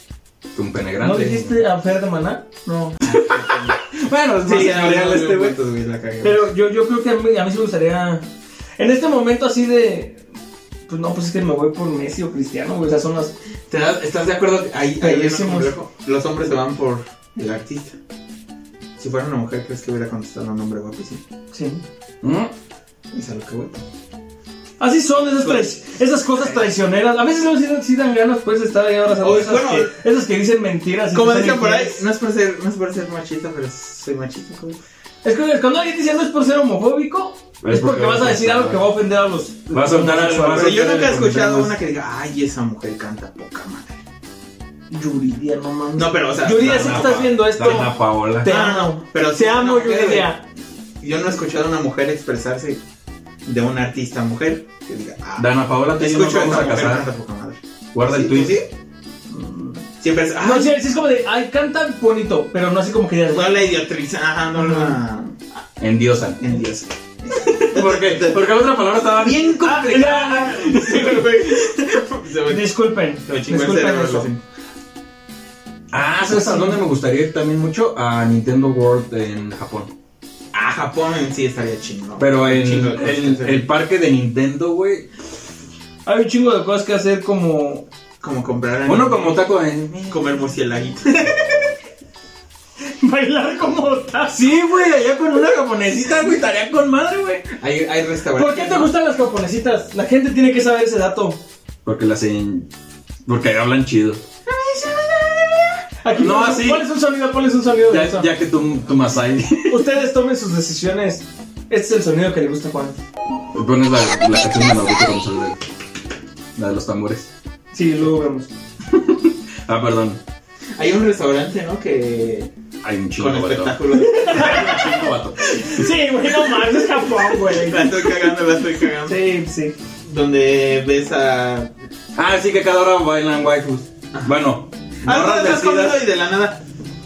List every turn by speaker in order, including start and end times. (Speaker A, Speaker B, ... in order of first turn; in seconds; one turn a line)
Speaker A: 0.5-1.6
Speaker B: 1.0-3.0
Speaker C: 3.0-3.8
Speaker A: 3.1-5.6
Speaker C: 4.4-6.4
Speaker B: 6.2-8.3
Speaker B: 8.8-10.2
Speaker B: 10.9-13.3
Speaker C: 13.7-18.0
Speaker B: 15.0-15.7
Speaker C: 19.0-21.2
Speaker B: 21.5-21.8
Speaker A: 22.2-22.5
Speaker C: 23.1-23.8
Speaker B: 24.8-32.0
Speaker C: 26.4-26.6
Speaker C: 29.2-29.9
Speaker C: 31.1-34.8
Speaker B: 35.2-40.7
Speaker A: 37.6-38.9
Speaker A: 39.7-41.8
Speaker C: 40.5-44.0
Speaker B: 44.9-50.4
Speaker C: 46.0-47.2
Speaker A: 46.5-48.5
Speaker C: 48.5-50.4
Speaker C: 51.0-52.8
Speaker C: 53.5-58.7
Speaker A: 55.4-57.1
Speaker A: 57.9-58.6
Speaker B: 59.3-59.8
Speaker C: 60.0-60.8
Speaker B: 60.4-63.7
Speaker C: 63.3-65.6
Speaker B: 64.5-65.0
Speaker A: 65.8-66.4
Speaker C: 66.4-74.4
Speaker A: 67.4-71.3
Speaker B: 69.6-70.9
Speaker B: 72.5-74.3
Speaker A: 75.9-79.9
Speaker B: 76.2-76.8
Speaker C: 80.5-83.7
Speaker A: 82.2-85.1
Speaker B: 86.0-87.9
Speaker C: 88.2-89.5
Speaker A: 88.9-90.3
Speaker C: 90.1-91.7
Speaker B: 93.0-94.5
Speaker A: 94.3-97.5
Speaker C: 97.5-98.9
Speaker B: 98.4-101.4
Speaker A: 101.8-102.7
Speaker A: 103.2-104.2
Speaker B: 104.5-108.3
Speaker A: 106.1-106.9
Speaker A: 107.8-109.9
Speaker B: 109.7-113.0
Speaker A: 113.5-115.6
Speaker A: 116.6-117.3
Speaker B: 117.7-118.5
Speaker A: 118.8-120.2
Speaker C: 120.8-122.5
Speaker A: 122.8-125.9
Speaker C: 123.2-124.8
Speaker B: 123.9-128.0
Speaker C: 127.5-129.2
Speaker B: 129.1-129.8
Speaker C: 130.1-131.7
Speaker A: 132.2-136.0
Speaker C: 135.0-136.6